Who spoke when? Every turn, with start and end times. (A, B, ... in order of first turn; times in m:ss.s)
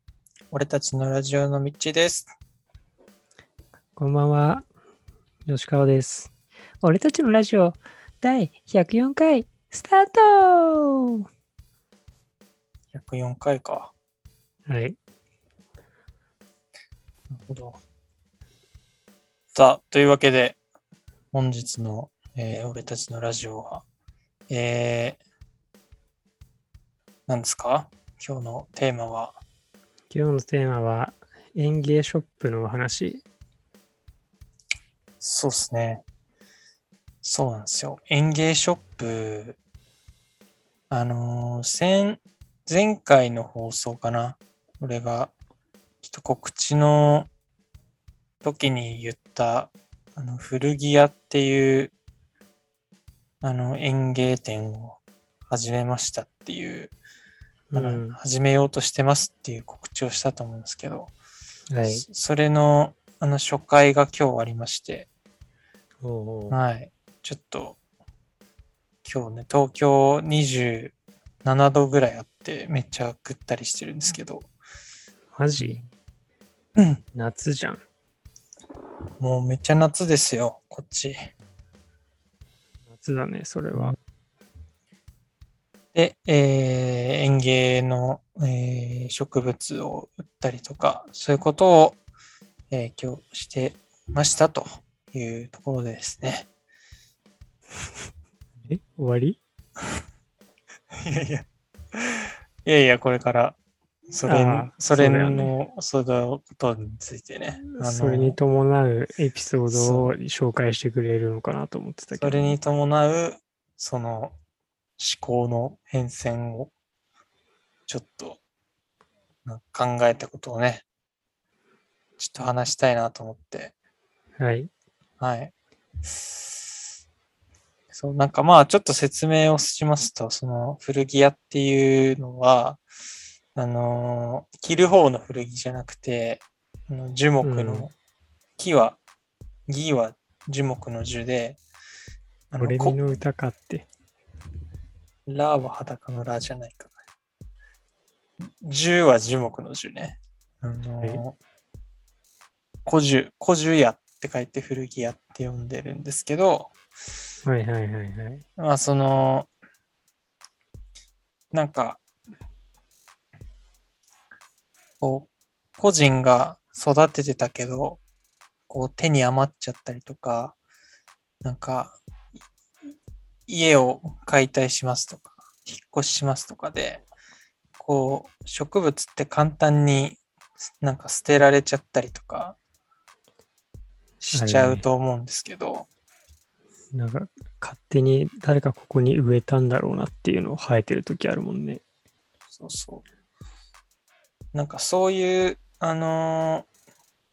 0:00.5-0:02.3 A
0:04.0-0:04.6 B
0:05.5-0:06.3 B
0:06.8-0:11.2 B
0:12.9-0:13.9 A
0:14.7-0:15.0 B
0:17.3-0:17.8 A
0:19.6-0:20.6 A
0:21.3-0:23.8 A
0:24.5-0:25.2 A
0:27.3-0:29.4 A
0:30.1-0:33.2 B
0:35.2-0:36.0 A
0:37.2-0:39.6 A
0:40.9-0:45.3 A
0:46.0-0:47.3 A
0:48.4-0:51.9 A
0:53.4-0:55.0 A
0:55.5-0:56.9 A
0:57.7-0:58.2 B
0:57.7-1:01.1 A
1:01.7-1:02.1 B
1:01.8-1:05.1 A
1:06.0-1:06.6 B
1:06.5-1:07.8 A
1:09.0-1:14.5 A
1:15.4-1:15.8 B
1:15.6-1:15.8 A
1:16.8-1:17.0 A
1:17.1-1:17.8 B
1:19.2-1:21.3 A
1:23.0-1:24.0 B
1:25.9-1:32.0 A
1:32.7-1:36.5 A
1:38.7-1:39.4 B
1:40.9-1:43.6 A
1:44.1-1:48.4 A
1:44.3-1:45.5 B
1:47.7-1:52.6 B
1:49.7-1:50.1 A
1:52.1-1:54.4 A
1:55.0-1:56.7 A
1:57.9-1:58.4 A
1:59.5-2:00.8 A
2:02.2-2:03.7 A
2:04.4-2:04.7 B
2:05.2-2:05.5 A
2:07.9-2:12.8 A
2:13.6-2:17.9 A
2:17.4-2:17.9 B
2:18.6-2:19.0 A
2:19.7-2:21.6 A
2:22.5-2:23.0 A
2:22.6-2:23.9 B
2:25.3-2:26.9 A
2:28.4-2:31.4 A
2:32.9-2:36.7 A
2:37.4-2:38.4 B
2:38.6-2:39.5 A
2:41.5-2:42.0 A
2:45.0-2:48.0 A
2:48.7-2:50.6 A
2:51.4-2:52.0 A
2:53.5-2:57.1 A
2:57.8-3:00.2 A
3:00.8-3:02.6 A
3:04.2-3:05.9 A
3:04.3-3:04.8 B
3:06.9-3:11.8 B
3:12.5-3:13.0 A
3:14.5-3:16.7 A